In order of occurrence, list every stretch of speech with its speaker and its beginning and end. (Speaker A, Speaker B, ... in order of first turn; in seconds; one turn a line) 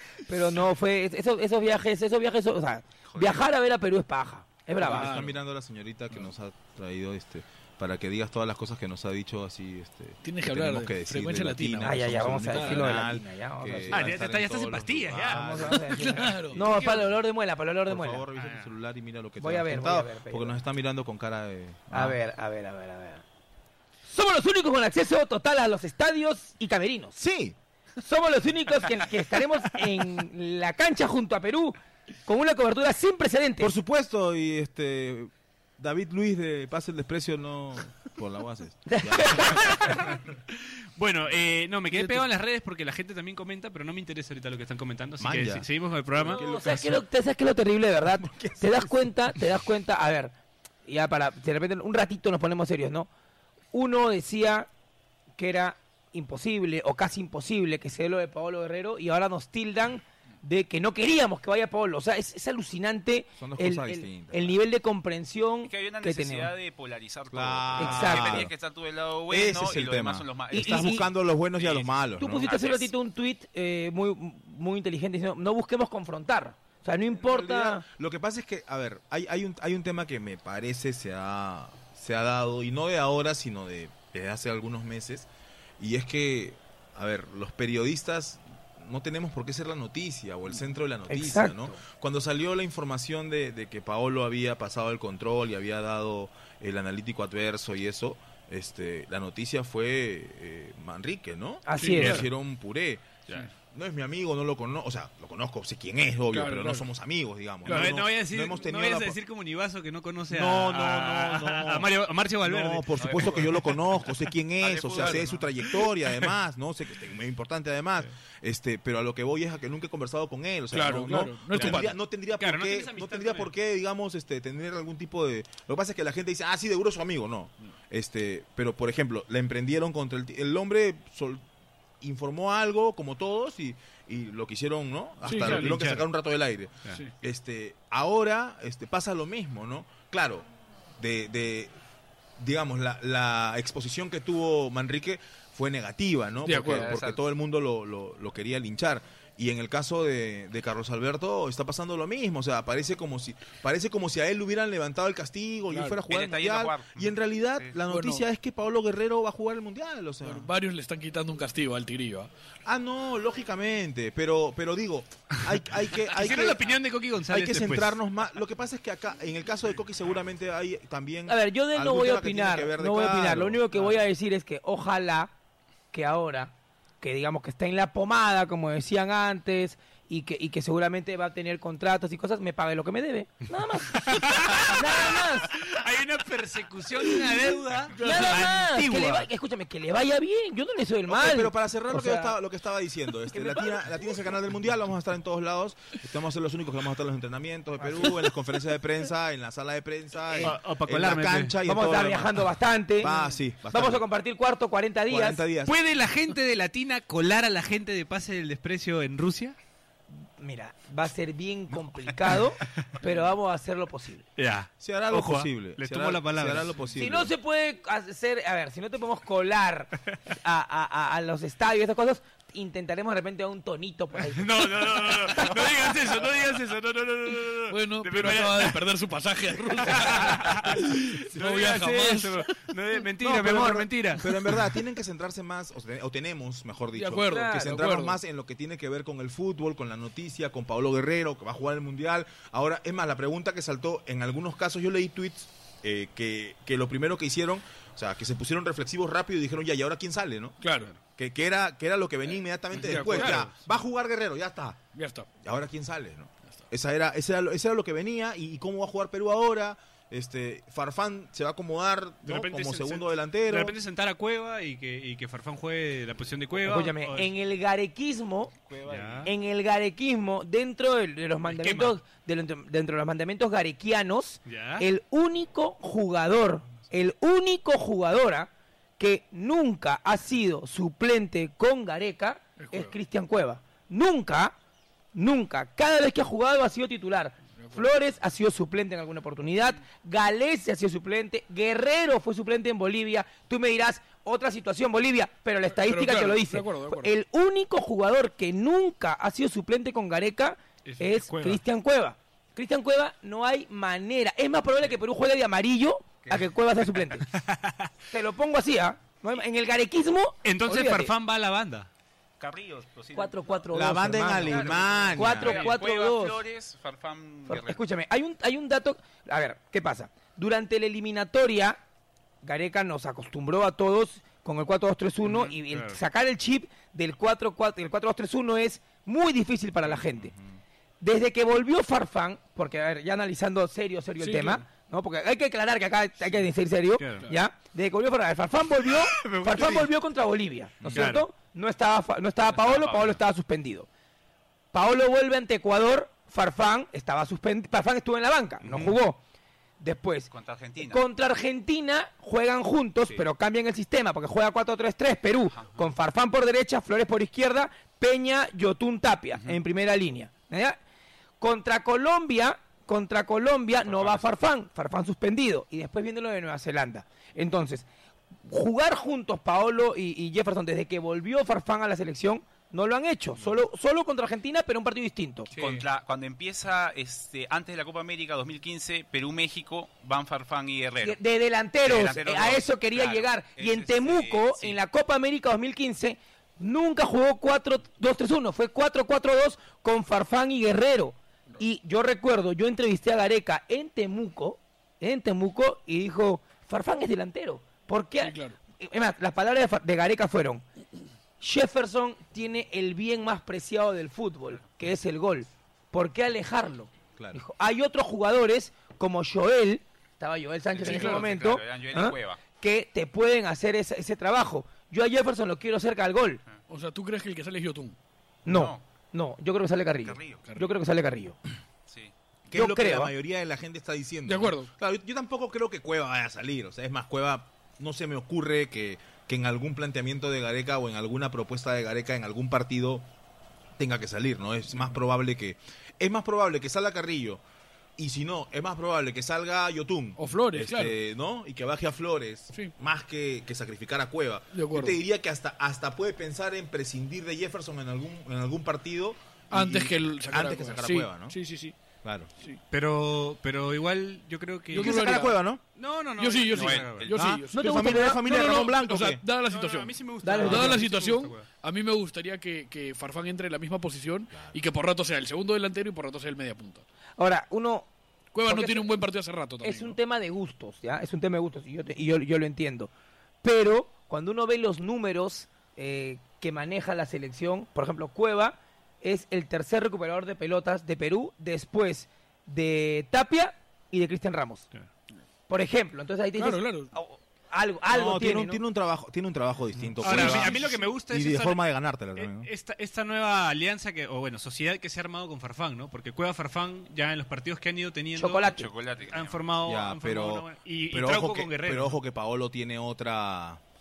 Speaker A: 0.3-5.2
Speaker B: 3.1-3.4
Speaker C: 4.8-5.4
Speaker D: 4.8-16.0
Speaker C: 10.2-12.9
Speaker A: 11.8-14.1
Speaker E: 13.9-15.8
Speaker A: 15.2-18.3
Speaker C: 15.9-16.6
Speaker D: 16.5-17.0
Speaker E: 16.6-17.1
Speaker D: 17.9-22.2
Speaker E: 18.4-18.7
Speaker A: 19.4-20.6
Speaker A: 21.9-23.2
Speaker A: 24.1-27.2
Speaker D: 27.2-27.6
Speaker A: 28.0-33.7
Speaker D: 33.6-39.9
Speaker A: 38.9-40.1
Speaker E: 39.5-46.5
Speaker C: 42.0-42.2
Speaker D: 45.2-47.0
Speaker A: 46.3-50.3
Speaker D: 48.2-49.1
Speaker A: 50.9-53.1
Speaker A: 53.7-54.7
Speaker A: 55.4-66.5
Speaker D: 63.4-64.5
Speaker B: 65.6-72.9
Speaker D: 67.3-68.5
Speaker A: 67.8-68.5
Speaker D: 69.3-72.5
Speaker A: 70.5-71.0
Speaker A: 72.2-77.8
Speaker D: 77.1-85.3
Speaker D: 85.8-109.2
Speaker A: 91.1-91.8
Speaker A: 101.7-102.2
Speaker C: 101.8-102.2
Speaker C: 106.3-106.9
Speaker C: 107.7-108.0
Speaker E: 107.7-113.0
Speaker D: 110.3-131.4
Speaker B: 113.0-113.6
Speaker B: 114.6-115.5
Speaker C: 115.0-115.2
Speaker C: 120.7-121.9
Speaker E: 121.5-123.5
Speaker D: 132.0-140.5
Speaker C: 135.2-135.8
Speaker E: 135.3-136.1
Speaker D: 141.0-141.7
Speaker D: 142.4-160.5
Speaker C: 146.4-147.0
Speaker B: 146.6-147.2
Speaker C: 155.7-156.0
Speaker B: 156.1-157.8
Speaker C: 157.9-158.2
Speaker C: 160.2-162.3
Speaker D: 162.7-166.7
Speaker E: 166.1-168.0
Speaker D: 167.3-173.6
Speaker A: 171.3-175.3
Speaker A: 175.9-185.6
Speaker E: 183.9-189.3
Speaker A: 187.0-192.4
Speaker C: 188.0-188.4
Speaker D: 191.1-204.0
Speaker A: 193.3-193.6
Speaker A: 197.8-198.1
Speaker A: 200.3-200.6
Speaker E: 200.4-201.6
Speaker A: 201.7-203.1
Speaker A: 203.6-205.4
Speaker D: 205.1-205.7
Speaker E: 205.7-209.6
Speaker A: 210.4-214.3
Speaker E: 214.4-216.8
Speaker D: 214.8-217.3
Speaker A: 216.9-225.5
Speaker E: 224.2-228.9
Speaker C: 227.7-232.7
Speaker E: 229.7-234.6
Speaker D: 233.2-254.8
Speaker C: 237.0-238.2
Speaker A: 237.3-237.8
Speaker C: 250.6-250.9
Speaker C: 252.7-253.5
Speaker E: 252.8-253.5
Speaker C: 254.9-255.3
Speaker D: 255.4-263.8
Speaker E: 262.2-267.3
Speaker A: 266.6-268.5
Speaker B: 268.7-269.3
Speaker E: 268.9-269.3
Speaker A: 269.2-284.6
Speaker E: 271.4-272.0
Speaker E: 274.5-274.9
Speaker C: 282.6-282.9
Speaker A: 285.1-307.3
Speaker C: 287.6-287.9
Speaker C: 295.7-297.2
Speaker E: 300.9-301.6
Speaker E: 307.3-307.9
Speaker A: 308.1-311.1
Speaker E: 310.4-311.9
Speaker B: 312.4-317.8
Speaker A: 313.1-316.4
Speaker D: 313.7-315.6
Speaker A: 317.5-321.8
Speaker A: 322.4-330.3
Speaker E: 325.2-326.0
Speaker D: 329.9-330.4
Speaker A: 331.0-343.9
Speaker C: 334.2-334.6
Speaker E: 337.0-337.3
Speaker E: 338.9-339.9
Speaker E: 340.9-341.3
Speaker B: 342.5-343.2
Speaker A: 344.7-349.2
Speaker E: 348.6-349.0
Speaker A: 349.8-360.8
Speaker B: 350.3-351.0
Speaker A: 361.4-367.9
Speaker A: 368.4-375.5
Speaker B: 375.5-381.2
Speaker E: 375.6-375.8
Speaker A: 381.0-400.6
Speaker B: 381.8-384.8
Speaker C: 398.2-398.6
Speaker A: 401.4-416.4
Speaker B: 410.7-412.4
Speaker C: 410.8-411.2
Speaker C: 416.7-418.0
Speaker A: 418.4-421.4
Speaker B: 418.5-418.8
Speaker B: 420.0-420.5
Speaker B: 421.9-422.1
Speaker D: 422.5-433.1
Speaker A: 422.5-423.1
Speaker C: 424.3-424.7
Speaker D: 433.8-437.4
Speaker D: 438.0-451.4
Speaker C: 440.2-440.9
Speaker C: 444.5-445.0
Speaker C: 449.5-451.8
Speaker D: 452.0-452.3
Speaker E: 452.7-455.1
Speaker C: 454.7-455.4
Speaker D: 454.7-455.6
Speaker E: 455.8-457.1
Speaker C: 456.2-466.9
Speaker B: 456.5-457.2
Speaker D: 457.1-459.2
Speaker A: 457.5-458.3
Speaker E: 459.5-461.5
Speaker A: 460.2-460.8
Speaker D: 464.3-464.6
Speaker A: 467.2-467.9
Speaker C: 468.3-470.0
Speaker A: 468.5-468.9
Speaker A: 469.6-472.9
Speaker A: 473.4-484.7
Speaker A: 485.5-488.6
Speaker C: 486.4-486.9
Speaker D: 487.9-492.5
Speaker E: 490.0-491.6
Speaker C: 490.0-490.9
Speaker E: 492.2-498.6
Speaker A: 498.2-498.7
Speaker B: 498.5-499.4
Speaker E: 499.1-502.0
Speaker D: 499.6-503.6